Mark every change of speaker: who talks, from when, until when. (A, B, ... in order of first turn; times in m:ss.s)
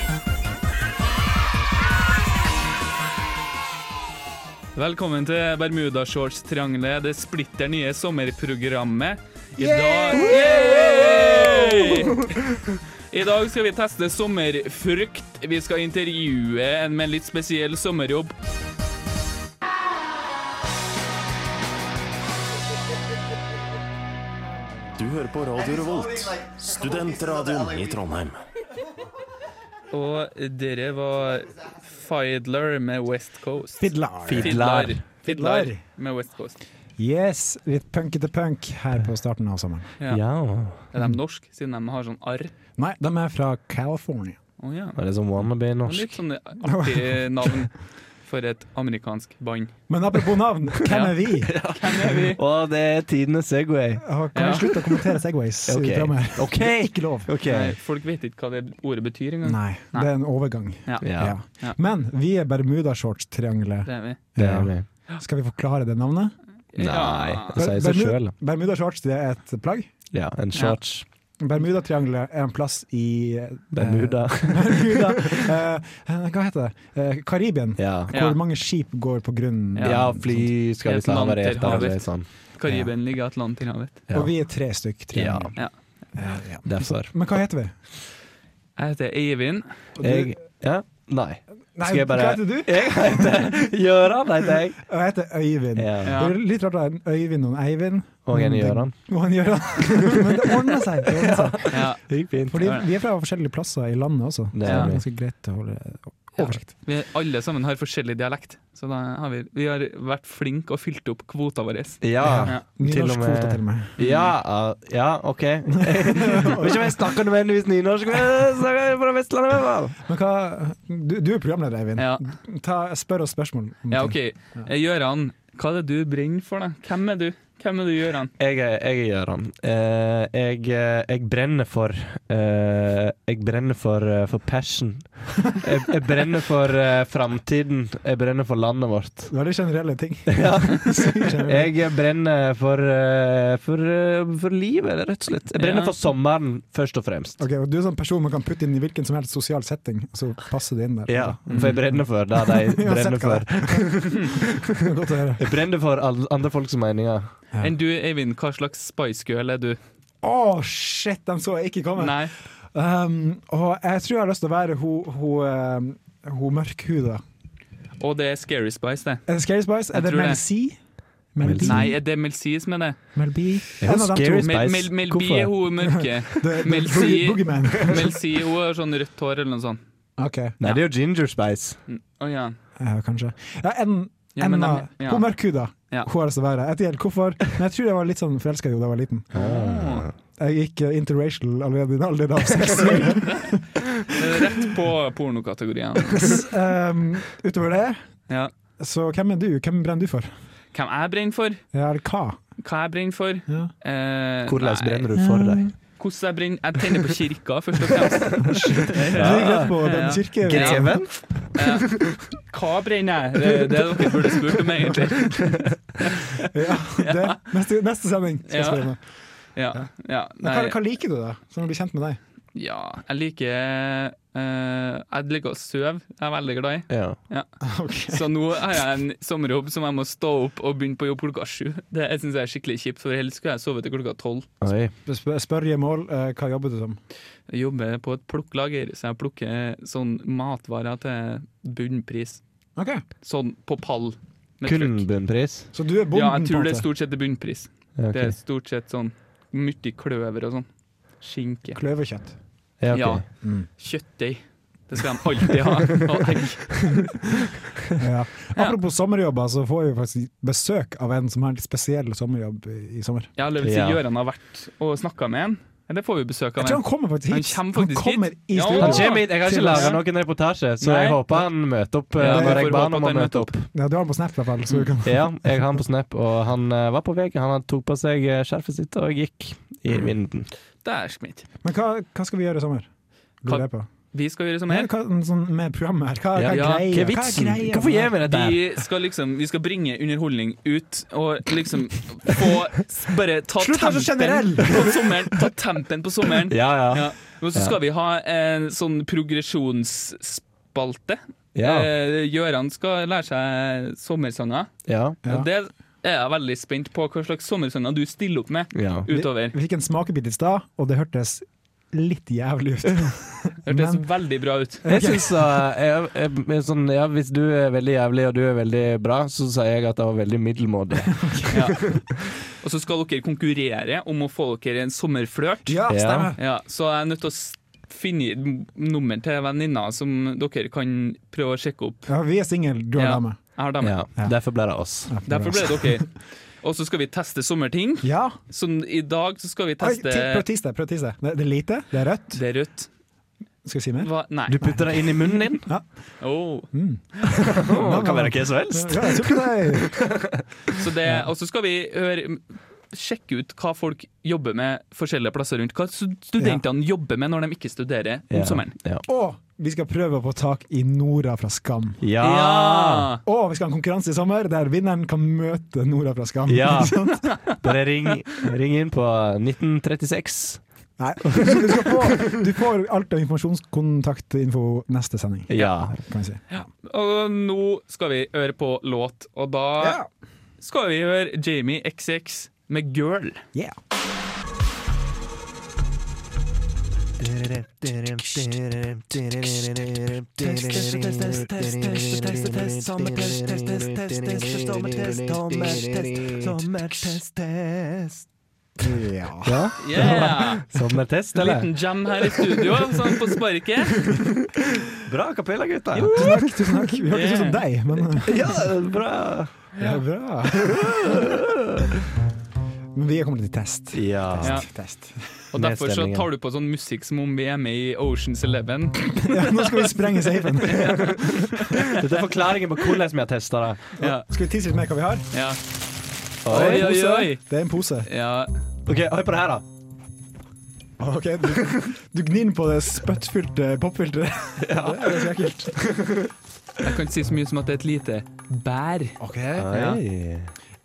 0:04.8-0:12.3 A
0:09.6-0:12.4 B
0:13.1-0:18.3 A
0:25.0-0:28.4 C
0:29.9-0:36.6 A
0:33.8-0:34.6 B
0:34.2-0:35.0 D
0:35.2-0:35.8 B
0:37.0-0:39.9 B
0:40.1-0:40.8 D
0:40.9-0:42.5 A
0:42.8-0:44.4 B
0:44.6-0:45.0 A
0:45.0-0:46.2 D
0:45.8-0:49.7 A
0:46.6-0:47.6 B
0:49.9-0:51.5 B
0:50.8-0:52.4 A
0:51.4-0:57.8 D
0:54.0-0:57.3 B
0:54.3-0:54.6 A
0:57.4-1:00.1 A
0:59.4-1:06.4 B
1:00.8-1:01.8 A
1:01.0-1:01.3 D
1:03.8-1:04.2 A
1:04.4-1:04.8 D
1:06.7-1:07.6 A
1:06.8-1:08.3 D
1:07.5-1:09.9 B
1:10.1-1:11.0 D
1:11.4-1:20.5 B
1:13.7-1:15.5 D
1:17.8-1:18.1 D
1:18.1-1:18.4 A
1:19.8-1:22.8 D
1:20.8-1:24.0 A
1:24.1-1:25.6 B
1:25.1-1:25.5 D
1:26.1-1:27.7 B
1:26.6-1:27.2 D
1:28.8-1:29.7 A
1:30.0-1:30.3 B
1:30.0-1:34.8 D
1:31.8-1:33.5 B
1:34.8-1:41.8 B
1:35.8-1:36.2 D
1:36.0-1:36.3 A
1:38.2-1:39.1 D
1:39.8-1:40.5 D
1:41.2-1:42.7 D
1:41.7-1:42.0 A
1:42.5-1:46.7 B
1:44.5-1:45.0 D
1:44.6-1:44.9 A
1:46.4-1:52.6 A
1:52.0-2:00.0 D
1:52.2-1:53.9 B
1:54.0-1:54.3 A
1:55.7-1:57.2 B
2:00.0-2:04.6 B
2:02.0-2:02.2 A
2:03.9-2:08.3 A
2:08.4-2:19.3 D
2:19.3-2:21.7 B
2:20.3-2:27.4 D
2:25.6-2:25.9 A
2:27.4-2:35.5 B
2:31.1-2:34.6 D
2:31.5-2:31.8 A
2:35.4-2:37.3 D
2:37.6-2:39.8 A
2:40.2-2:47.2 B
2:42.0-2:42.4 A
2:48.0-2:49.2 A
2:49.3-2:50.8 B
2:49.9-2:50.4 A
2:51.3-2:52.0 B
2:51.4-2:51.9 D
2:51.6-2:53.0 A
2:53.1-2:54.7 B
2:53.8-2:56.4 D
2:54.4-2:59.8 A
2:55.9-2:58.2 B
3:00.2-3:00.6 B
3:00.6-3:01.8 D
3:01.9-3:02.6 A
3:02.8-3:09.3 B
3:04.4-3:05.3 A
3:09.3-3:10.1 A
3:09.3-3:10.1 D
3:10.4-3:14.7 B
3:12.9-3:13.5 A
3:14.1-3:16.4 A
3:16.1-3:18.0 B
3:18.8-3:20.3 B
3:20.7-3:21.6 A
3:21.7-3:22.4 B
3:22.6-3:25.1 A
3:23.5-3:23.7 B
3:24.4-3:25.7 D
3:25.2-3:25.7 B
3:26.0-3:31.0 A
3:28.4-3:31.0 B
3:29.0-3:29.8 D
3:30.4-3:32.2 D
3:31.5-3:37.4 A
3:36.4-3:39.0 B
3:38.5-3:38.9 A
3:39.6-3:40.8 A
3:40.4-3:42.2 B
3:42.5-3:47.5 A
3:46.9-3:47.2 D
3:47.6-3:48.2 B
3:48.1-3:54.5 A
3:54.6-3:54.9 D
3:55.0-3:57.0 B
3:57.5-4:02.4 A
4:02.8-4:03.0 B
4:03.2-4:05.0 A
4:04.6-4:05.7 D
4:05.7-4:06.9 B
4:06.1-4:10.7 A
4:08.0-4:08.3 D
4:11.2-4:11.8 A
4:11.7-4:12.4 B
4:12.8-4:13.2 D
4:12.9-4:13.2 A
4:13.4-4:13.7 B
4:13.8-4:17.0 A
4:18.0-4:23.3 B
4:23.4-4:30.0 A
4:23.6-4:24.0 D
4:26.6-4:30.0 B
4:28.8-4:33.6 D
4:30.8-4:31.2 A
4:32.2-4:33.6 A
4:32.2-4:32.8 B
4:33.7-4:35.5 B
4:35.0-4:40.5 D
4:40.8-4:41.4 A
4:41.6-4:42.9 B
4:43.4-4:43.9 B
4:43.4-4:44.9 A
4:44.7-4:48.1 B
4:46.3-4:48.6 D
4:46.5-4:46.9 A
4:48.2-5:04.7 A
4:53.6-4:55.1 B
4:56.5-4:57.8 D
5:01.5-5:01.9 D
5:04.9-5:05.2 D
5:05.2-5:09.6 A
5:08.7-5:09.1 D
5:09.1-5:14.0 B
5:13.6-5:14.8 A
5:14.8-5:15.6 B
5:14.8-5:22.1 D
5:21.2-5:21.6 B
5:21.5-5:21.8 A
5:22.6-5:25.8 A
5:25.6-5:26.4 B
5:25.9-5:26.3 D
5:26.4-5:32.1 A
5:32.1-5:33.4 B
5:33.0-5:34.0 A
5:33.8-5:35.2 D
5:35.1-5:36.1 B
5:35.2-5:36.1 A
5:36.6-5:40.4 A
5:38.0-5:38.4 B
5:39.8-5:42.4 B
5:42.3-5:42.9 A
5:43.6-5:44.1 B
5:44.0-5:45.6 A
5:44.5-5:45.7 D
5:46.2-5:47.3 A
5:46.7-5:50.0 B
5:47.3-5:50.8 D
5:50.8-5:58.7 A
5:56.4-5:56.6 B
5:58.3-5:59.0 D
5:59.0-6:02.0 B
6:02.0-6:03.1 D
6:02.2-6:03.2 A
6:03.2-6:07.3 B
6:06.5-6:10.6 D
6:07.1-6:07.6 A
6:11.0-6:16.5 B
6:11.2-6:12.1 D
6:15.5-6:16.0 D
6:16.5-6:20.0 A
6:19.8-6:20.1 B
6:20.6-6:23.4 A
6:27.2-6:38.2 D
6:30.4-6:37.2 B
6:38.8-6:40.1 B
6:39.4-6:42.7 D
6:39.8-6:40.6 A
6:41.3-6:44.0 A
6:44.0-6:44.3 D
6:44.9-6:46.5 D
6:45.9-6:46.5 A
6:46.1-6:48.6 B
6:47.1-6:47.6 A
6:48.2-6:49.5 D
6:49.8-6:51.2 B
6:50.6-6:51.9 D
6:52.9-6:55.2 B
6:53.9-6:54.6 D
6:55.5-7:02.0 A
6:55.5-6:56.3 D
6:59.1-7:01.5 B
7:00.9-7:01.2 D
7:01.8-7:03.9 D
7:04.0-7:04.2 A
7:04.0-7:05.3 B
7:05.3-7:05.6 A
7:06.4-7:07.3 D
7:06.5-7:07.4 A
7:06.5-7:08.1 B
7:08.0-7:08.5 A
7:08.8-7:09.6 D
7:11.0-7:16.1 B
7:14.6-7:16.3 D
7:16.8-7:19.2 A
7:19.2-7:19.7 B
7:19.6-7:20.5 D
7:19.7-7:20.0 A